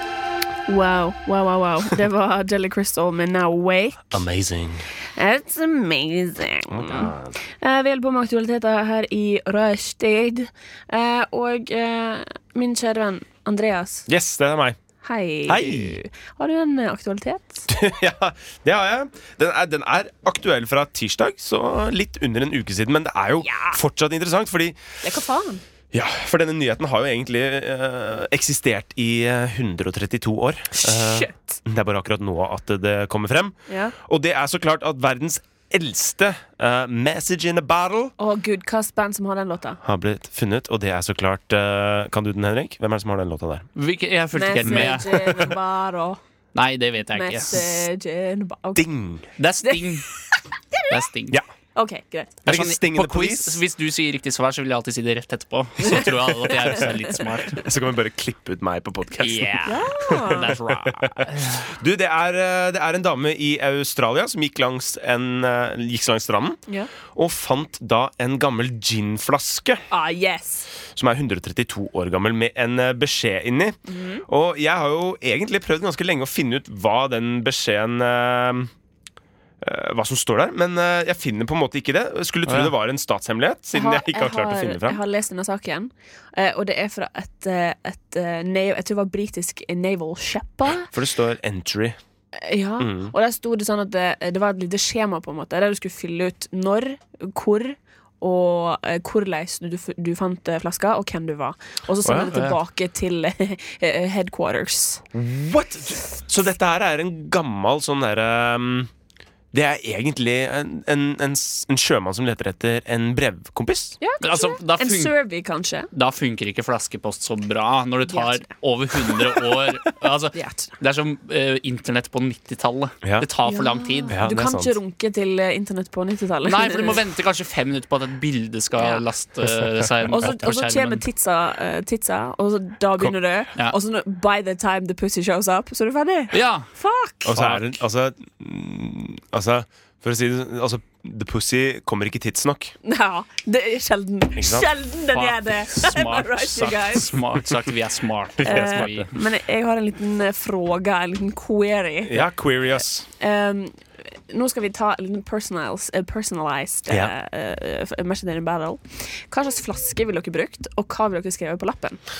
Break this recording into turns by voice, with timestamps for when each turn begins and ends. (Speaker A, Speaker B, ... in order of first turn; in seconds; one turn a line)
Speaker A: 0.7-4.2
Speaker B: 4.1-4.9
Speaker A: 5.2-14.1
Speaker B: 6.7-7.3
Speaker B: 14.1-14.8
Speaker A: 15.0-17.7
Speaker B: 15.5-16.0
Speaker B: 17.7-24.8
Speaker A: 23.4-23.8
Speaker A: 25.0-25.6
Speaker B: 25.9-38.1
Speaker A: 30.7-31.6
Speaker A: 33.7-33.9
Speaker A: 38.2-39.8
Speaker B: 39.8-43.7
Speaker C: 43.8-45.4
Speaker A: 44.3-46.2
Speaker B: 44.6-45.2
Speaker C: 46.5-47.6
Speaker A: 47.1-48.9
Speaker B: 48.8-49.3
Speaker C: 49.4-50.1
Speaker A: 49.6-50.3
Speaker C: 50.9-51.4
Speaker A: 51.8-52.4
Speaker B: 52.5-53.6
Speaker C: 52.5-57.6
Speaker B: 55.9-56.9
Speaker A: 56.5-56.8
Speaker B: 57.6-69.8
Speaker C: 59.2-61.6
Speaker A: 59.7-60.5
Speaker A: 69.9-70.7
Speaker B: 70.9-78.7
Speaker A: 73.9-74.2
Speaker B: 79.6-85.0
Speaker C: 82.5-82.7
Speaker A: 83.7-90.9
Speaker B: 90.8-92.0
Speaker A: 92.4-105.0
Speaker B: 92.8-93.1
Speaker B: 102.0-102.4
Speaker B: 105.1-108.9
Speaker B: 109.5-114.0
Speaker A: 114.0-115.9
Speaker C: 114.2-115.1
Speaker C: 115.9-124.2
Speaker A: 118.1-118.5
Speaker A: 120.3-120.7
Speaker A: 123.5-127.0
Speaker B: 124.1-124.8
Speaker C: 126.5-131.0
Speaker A: 128.8-129.0
Speaker A: 130.1-137.3
Speaker C: 136.3-136.7
Speaker B: 137.2-142.8
Speaker C: 137.3-137.7
Speaker A: 142.8-147.1
Speaker B: 144.4-144.7
Speaker C: 145.1-149.1
Speaker B: 148.4-149.1
Speaker A: 148.4-152.2
Speaker B: 152.1-153.1
Speaker A: 153.2-153.8
Speaker A: 154.3-162.0